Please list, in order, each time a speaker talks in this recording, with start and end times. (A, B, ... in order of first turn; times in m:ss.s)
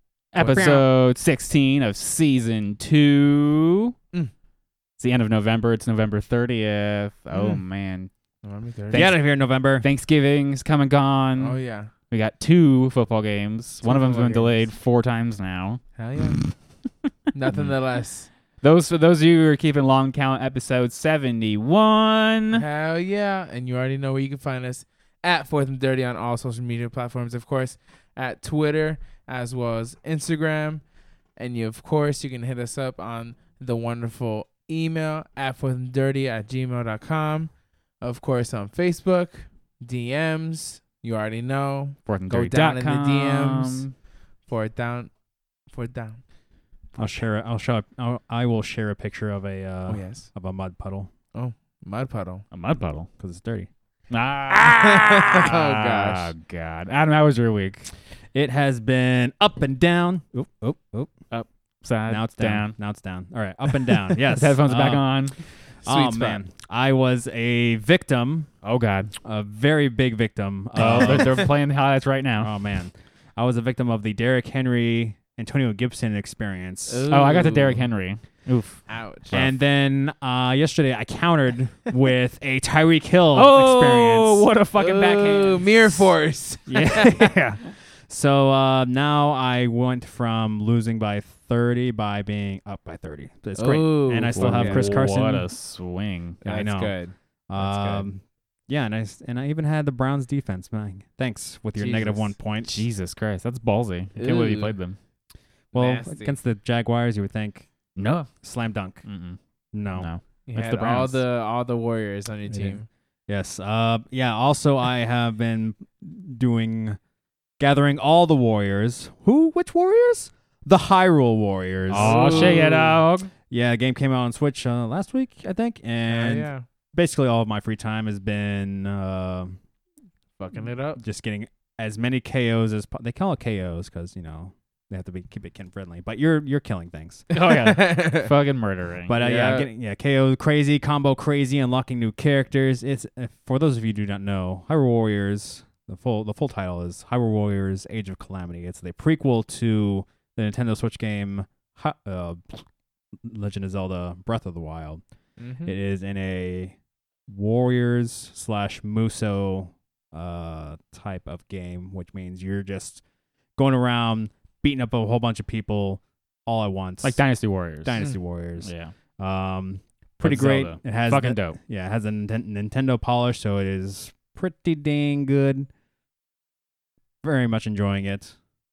0:00.3-0:03.9 A
0:00.4-0:00.8 B
0:05.0-0:08.1 A
0:07.3-0:07.6 C
0:08.4-0:09.1 C
0:08.9-0:11.6 A
0:08.9-0:09.8 B
0:11.4-0:11.9 C
0:12.1-0:15.8 A
0:13.8-0:14.6 C
0:16.0-0:16.4 C
0:17.3-0:18.3 C
0:18.6-0:22.6 A
0:22.5-0:30.8 C
0:31.4-0:43.8 C
0:42.1-0:43.9 A
0:44.4-0:45.1 C
0:45.7-0:46.2 C
0:47.0-0:51.1 B
0:49.9-0:50.3 C
0:51.3-0:52.4 C
0:52.5-0:53.1 A
0:53.2-0:53.7 B
0:54.1-0:57.9 A
0:54.5-0:56.3 C
0:58.3-1:01.1 B
1:01.3-1:02.7 A
1:02.1-1:05.0 B
1:04.2-1:05.4 A
1:05.8-1:08.5 B
1:05.8-1:06.4 C
1:08.6-1:09.1 A
1:09.2-1:11.6 B
1:10.8-1:12.5 A
1:12.4-1:17.1 B
1:16.9-1:17.8 C
1:17.1-1:19.5 A
1:18.9-1:19.4 C
1:19.3-1:24.5 B
1:23.3-1:26.0 A
1:24.7-1:27.2 C
1:26.7-1:35.5 B
1:33.5-1:34.9 C
1:34.3-1:36.4 A
1:36.4-1:36.9 B
1:36.4-1:38.0 C
1:37.5-1:42.8 B
1:41.8-1:42.3 C
1:42.6-1:45.0 A
1:44.2-1:44.7 C
1:45.7-1:46.3 C
1:45.7-1:47.7 B
1:48.0-1:48.3 A
1:48.3-1:49.0 B
1:49.0-1:49.4 A
1:49.7-1:50.1 B
1:50.0-1:51.2 A
1:50.5-1:52.8 C
1:53.3-1:57.0 B
1:57.6-2:02.6 B
2:01.9-2:03.3 A
2:01.9-2:03.0 C
2:03.5-2:09.6 B
2:06.1-2:06.6 C
2:10.4-2:11.0 C
2:11.0-2:17.3 B
2:17.3-2:18.3 C
2:17.3-2:19.1 A
2:19.1-2:32.6 B
2:19.2-2:19.7 C
2:33.2-2:35.0 B
2:35.4-2:35.7 C
2:35.6-2:36.8 B
2:37.3-2:43.0 B
2:43.6-2:47.2 B
2:47.0-2:48.0 A
2:47.8-2:55.7 B
2:48.6-2:48.9 A
2:50.2-2:51.6 A
2:57.2-2:58.4 B